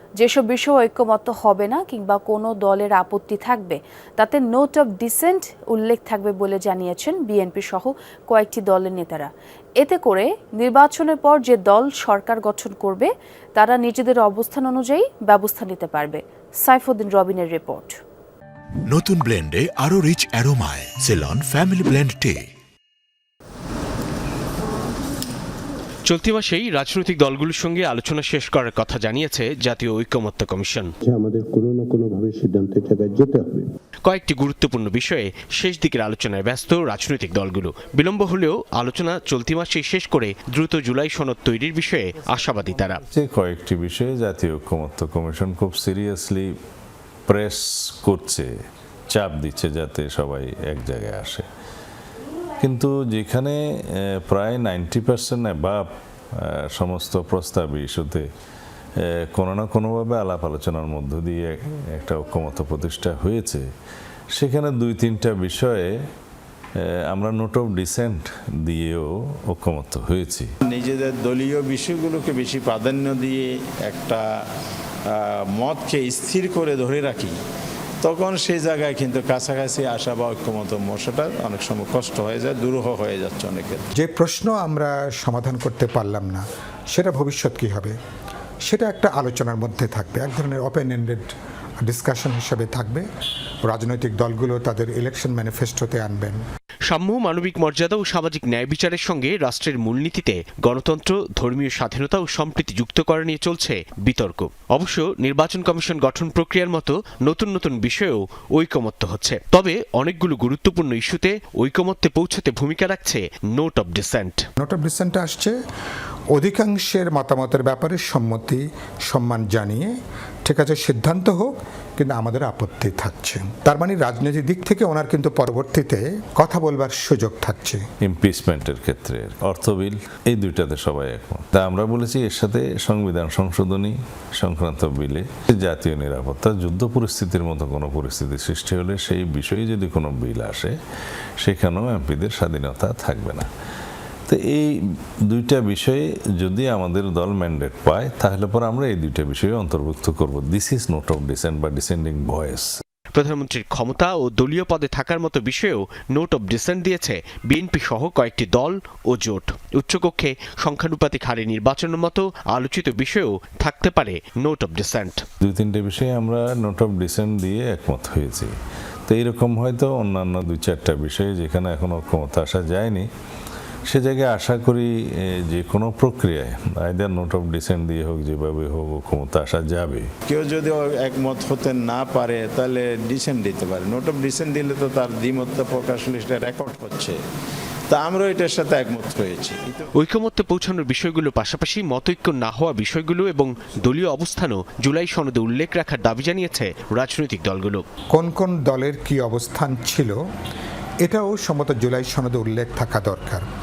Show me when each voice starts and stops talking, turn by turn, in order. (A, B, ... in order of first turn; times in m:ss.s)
0:00.2-0:17.9 A
0:18.9-0:22.5 B
0:26.1-0:30.9 C
0:31.1-0:33.6 D
0:34.1-0:43.0 C
0:43.1-0:46.5 E
0:47.3-0:48.5 E
0:49.1-0:51.4 E
0:52.6-0:55.8 E
0:56.4-0:58.2 E
0:59.0-1:03.6 E
1:04.3-1:05.9 E
1:06.8-1:10.5 E
1:10.7-1:14.2 F
1:15.1-1:17.3 F
1:18.0-1:23.9 F
1:24.0-1:28.0 G
1:28.7-1:31.3 G
1:31.8-1:33.0 G
1:33.6-1:36.4 G
1:36.9-1:54.4 C
1:54.6-1:55.5 G
1:56.3-1:59.9 G
2:00.4-2:07.8 G
2:08.0-2:20.7 E
2:21.4-2:23.5 E
2:24.3-2:24.7 E
2:25.3-2:32.7 E
2:33.1-2:45.2 C
2:45.4-2:48.5 E
2:49.1-2:53.1 E
2:53.9-3:00.1 E
3:00.3-3:07.2 F
3:07.9-3:09.9 F
3:10.0-3:17.8 C
3:18.1-3:20.2 G
3:21.0-3:23.4 G